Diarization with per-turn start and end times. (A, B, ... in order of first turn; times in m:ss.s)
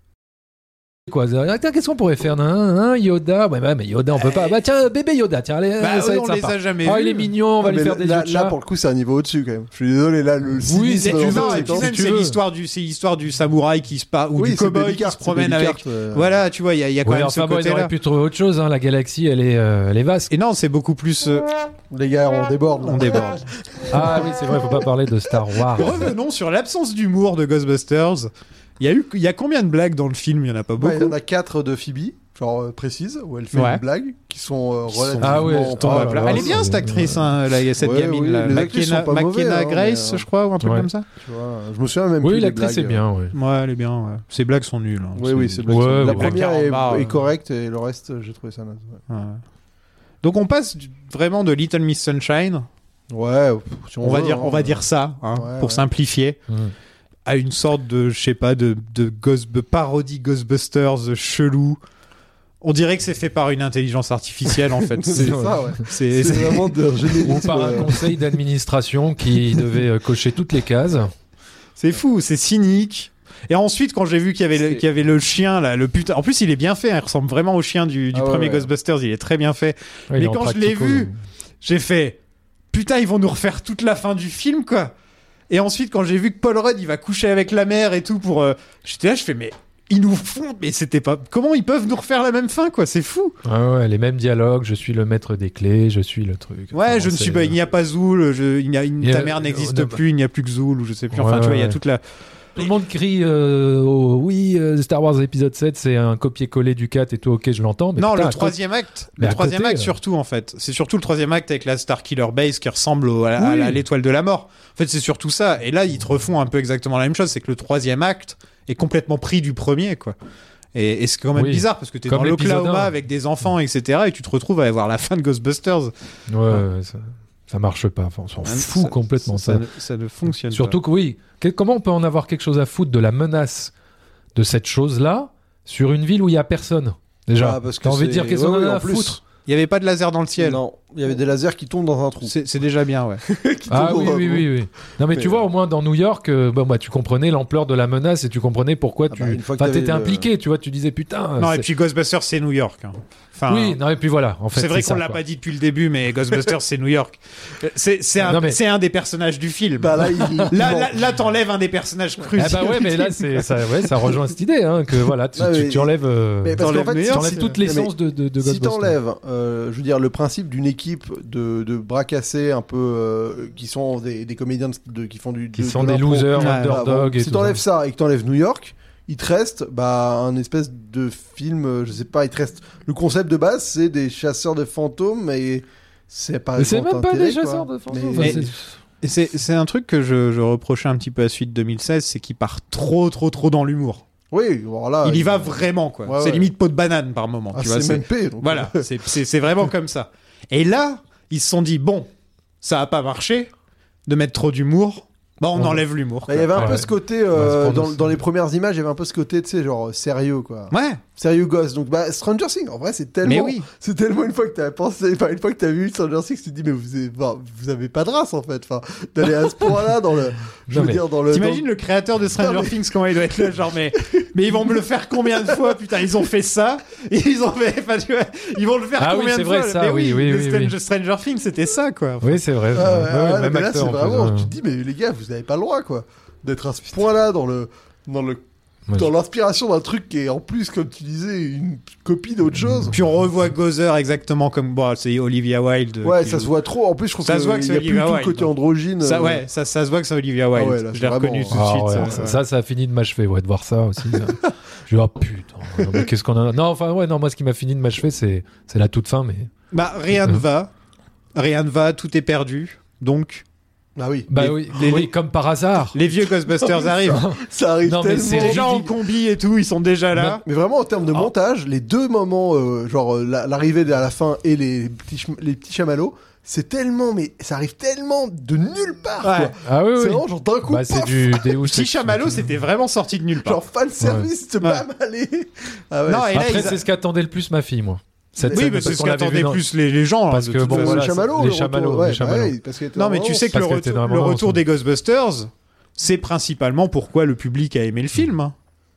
0:01.1-0:08.6 A
0:04.2-0:04.5 B
0:05.8-0:07.3 B
0:07.6-0:12.0 C
0:10.7-0:12.4 A
0:11.0-0:17.9 B
0:14.4-0:16.4 C
0:17.0-0:20.3 A
0:20.3-0:21.5 B
0:21.9-0:24.5 C
0:22.9-0:23.4 B
0:23.9-0:25.9 A
0:25.8-0:31.2 B
0:30.8-0:36.6 C
0:33.5-0:33.8 B
0:34.9-0:41.1 B
0:35.2-0:37.2 A
0:37.8-0:40.3 C
0:40.6-0:40.9 A
0:41.2-0:43.0 C
0:42.2-0:43.3 A
0:43.3-0:47.2 B
0:45.2-0:49.0 C
0:45.7-0:46.4 A
0:49.1-0:49.4 B
0:50.2-0:52.7 B
0:53.1-0:55.8 C
0:54.0-0:56.4 B
0:57.3-1:01.8 B
1:02.6-1:06.8 B
1:05.0-1:08.1 C
1:05.2-1:05.8 A
1:07.2-1:11.1 A
1:11.8-1:21.1 B
1:14.6-1:14.8 C
1:18.1-1:18.7 C
1:20.1-1:21.2 A
1:21.6-1:22.2 B
1:22.7-1:24.9 B
1:25.5-1:33.4 B
1:33.4-1:37.6 A
1:36.7-1:42.0 B
1:39.0-1:40.0 A
1:41.1-1:41.8 A
1:42.6-1:48.6 A
1:48.0-2:00.2 B
1:49.2-1:49.9 A
1:53.4-1:53.8 A
2:00.8-2:05.9 B
2:01.4-2:02.9 A
2:06.3-2:09.6 A
2:08.4-2:10.8 B
2:10.5-2:13.7 A
2:14.4-2:19.2 A
2:17.4-2:19.2 C
2:19.5-2:20.6 B
2:20.4-2:22.3 C
2:22.2-2:23.2 B
2:23.2-2:24.5 C
2:23.7-2:31.7 A
2:25.1-2:25.5 C
2:29.1-2:30.3 C
2:31.4-2:33.8 B
2:33.5-2:35.2 A
2:34.5-2:40.0 B
2:38.2-2:38.6 A
2:39.8-2:41.0 C
2:40.2-2:40.5 A
2:40.5-2:43.2 B
2:42.4-2:49.0 A
2:42.6-2:42.9 C
2:45.4-3:08.5 C
2:46.6-2:47.5 B
2:55.6-2:57.6 A
2:56.4-2:56.8 B
3:06.6-3:08.7 A
3:08.2-3:08.5 B
3:09.0-3:14.0 B
3:14.3-3:16.5 C
3:15.0-3:22.1 B
3:17.5-3:18.8 C
3:22.6-3:23.5 B
3:24.1-3:26.7 B
3:26.3-3:41.7 C
3:26.6-3:28.2 A
3:30.7-3:31.0 B
3:33.2-3:33.7 B
3:40.7-3:41.0 A
3:41.3-3:52.4 B
3:42.4-3:42.8 C
3:45.4-3:45.8 C
3:49.0-3:50.8 A
3:52.2-3:54.5 A
3:52.7-3:58.4 C
3:58.9-4:03.0 C
4:02.6-4:03.0 A
4:02.9-4:06.5 B
4:06.0-4:09.4 C
4:07.2-4:08.5 B
4:09.0-4:12.4 B
4:10.6-4:12.2 C
4:11.5-4:19.5 A
4:15.8-4:16.1 C
4:19.7-4:20.7 B
4:21.4-4:23.4 B
4:24.0-4:25.0 C
4:24.3-4:26.0 A
4:24.8-4:25.1 B
4:25.9-4:27.2 B
4:26.5-4:28.9 C
4:27.1-4:28.9 A
4:28.3-4:30.4 B
4:30.4-4:41.5 C
4:39.2-4:39.5 B
4:39.6-4:42.4 A
4:41.6-4:43.6 B
4:43.4-4:46.8 C
4:44.0-4:44.3 A
4:46.1-4:46.8 B
4:46.3-4:49.6 A
4:48.4-4:49.0 C
4:48.5-4:51.1 B
4:50.3-4:52.6 A
4:50.7-4:53.5 C
4:53.0-4:58.5 B
4:53.5-4:54.6 A